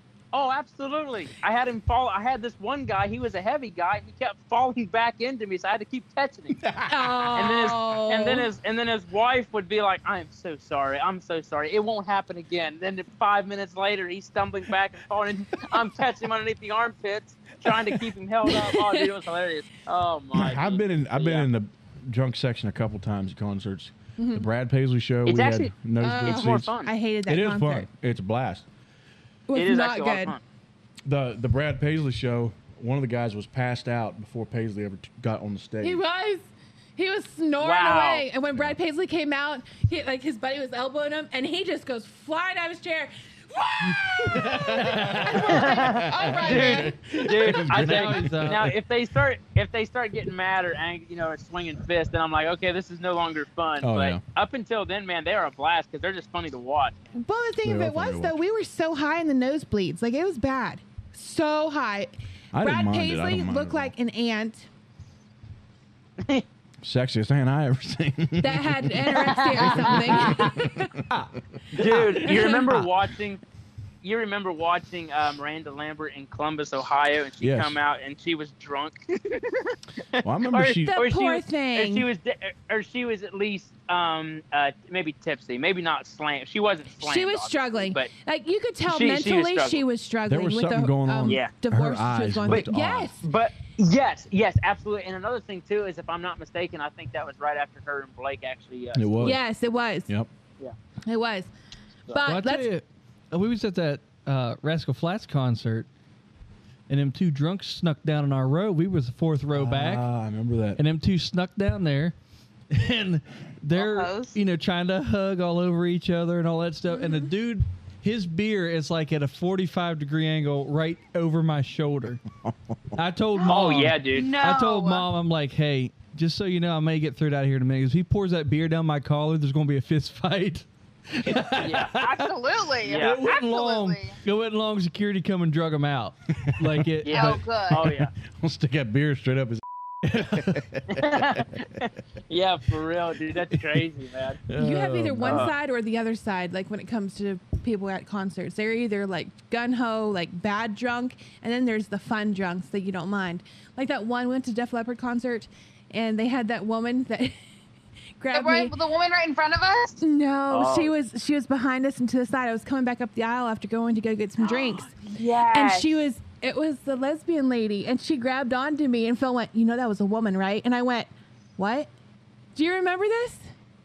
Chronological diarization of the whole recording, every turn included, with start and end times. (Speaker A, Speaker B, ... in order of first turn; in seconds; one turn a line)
Speaker A: 0.3-6.6
Speaker B: 6.6-7.3
Speaker C: 6.9-8.5
Speaker A: 7.3-21.5
Speaker C: 18.5-19.1
Speaker B: 20.3-26.8
Speaker C: 24.2-24.5
Speaker A: 25.3-26.9
Speaker C: 26.0-27.9
Speaker B: 27.3-28.7
Speaker C: 29.5-30.4
Speaker A: 29.5-30.4
Speaker B: 31.1-36.0
Speaker C: 35.8-47.2
Speaker A: 37.6-38.3
Speaker B: 43.9-48.8
Speaker A: 44.9-57.2
Speaker D: 47.6-48.7
Speaker B: 53.8-54.2
Speaker C: 57.2-64.7
Speaker B: 57.6-58.4
Speaker B: 62.5-63.9
Speaker B: 66.8-71.3
Speaker C: 68.4-71.0
Speaker A: 69.4-70.4
Speaker A: 71.7-73.4
Speaker C: 71.8-72.7
Speaker A: 74.0-88.1
Speaker B: 77.4-77.8
Speaker B: 80.2-81.0
Speaker C: 80.8-82.1
Speaker C: 87.0-93.2
Speaker A: 88.9-89.8
Speaker B: 90.3-93.1
Speaker A: 91.3-91.5
Speaker A: 93.2-99.4
Speaker B: 99.0-99.4
Speaker C: 99.2-100.1
Speaker C: 101.1-101.5
Speaker C: 102.1-102.7
Speaker D: 102.2-105.9
Speaker D: 106.9-110.1
Speaker B: 109.5-110.8
Speaker D: 110.8-112.2
Speaker D: 112.7-122.2
Speaker E: 113.7-114.4
Speaker D: 122.9-132.3
Speaker A: 123.4-124.3
Speaker E: 123.4-125.1
Speaker A: 131.6-132.0
Speaker E: 131.9-134.2
Speaker A: 132.8-133.2
Speaker D: 132.9-137.4
Speaker B: 136.4-136.9
Speaker A: 137.0-138.1
Speaker E: 137.1-137.9
Speaker B: 138.3-141.6
Speaker D: 140.2-140.6
Speaker A: 140.9-144.4
Speaker B: 144.5-145.5
Speaker C: 144.6-157.3
Speaker D: 144.6-145.4
Speaker A: 145.2-145.5
Speaker C: 158.2-158.7
Speaker E: 158.3-160.0
Speaker C: 160.0-171.9
Speaker A: 160.5-160.9
Speaker E: 164.4-166.1
Speaker C: 172.6-173.4